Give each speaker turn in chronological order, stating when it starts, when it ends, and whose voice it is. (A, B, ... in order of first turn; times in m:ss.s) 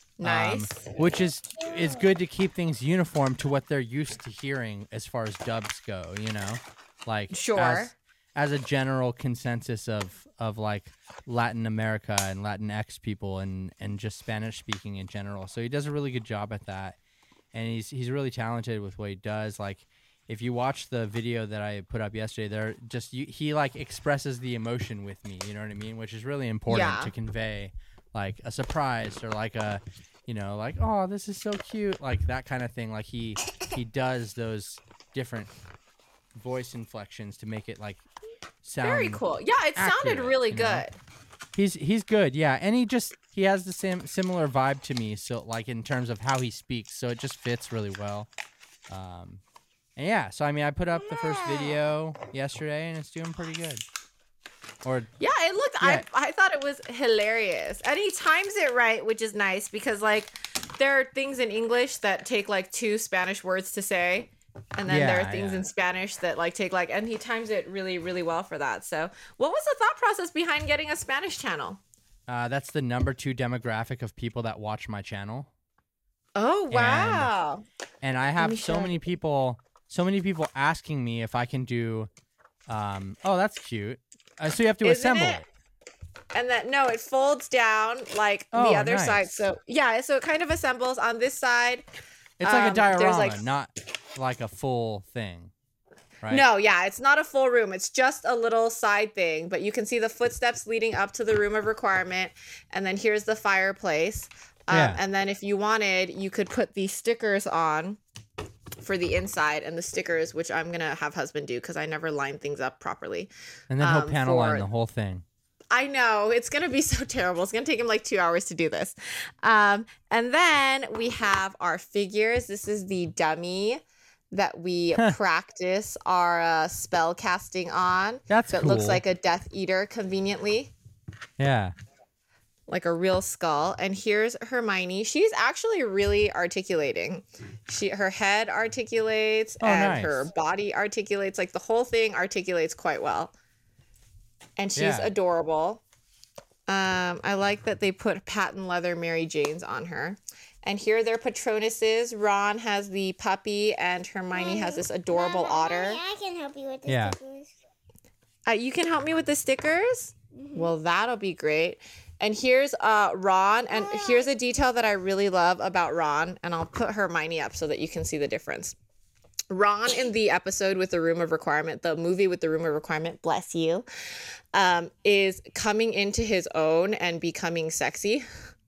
0:00.2-0:01.0 A
0:00.2-0:17.0 B
0:01.6-0:02.1 C
0:07.3-0:07.9 A
0:17.5-0:35.5 B
0:26.7-0:27.1 A
0:36.3-0:38.0 B
0:38.6-0:39.2 B
0:38.8-0:41.0 A
0:39.8-0:40.8 B
0:41.5-0:48.3 B
0:48.9-0:49.4 B
0:50.0-0:53.8 B
0:51.1-0:51.8 C
0:55.2-1:11.8 A
1:04.9-1:05.6 B
1:12.3-1:15.5 B
1:16.4-1:17.6 A
1:16.7-1:17.3 B
1:18.0-1:22.1 B
1:18.4-1:19.0 A
1:22.7-1:25.4 B
1:24.8-1:25.4 A
1:26.3-1:31.8 A
1:28.5-1:29.3 B
1:32.4-1:35.5 B
1:32.4-1:33.5 A
1:36.2-1:36.4 B
1:36.3-1:48.0 A
1:44.7-1:45.0 B
1:48.8-1:54.7 A
1:53.7-1:55.2 B
1:55.7-2:03.8 A
2:04.3-2:10.7 A
2:08.3-2:09.0 B
2:11.4-2:11.7 B
2:12.7-2:23.3 A
2:19.6-2:20.3 B
2:24.6-2:25.8 A
2:24.8-2:25.1 B
2:26.7-2:36.0 A
2:34.3-2:37.5 C
2:36.8-2:37.2 B
2:38.5-2:48.8 A
2:40.3-2:40.7 C
2:43.7-2:44.3 C
2:49.5-2:53.8 A
2:54.5-2:58.2 A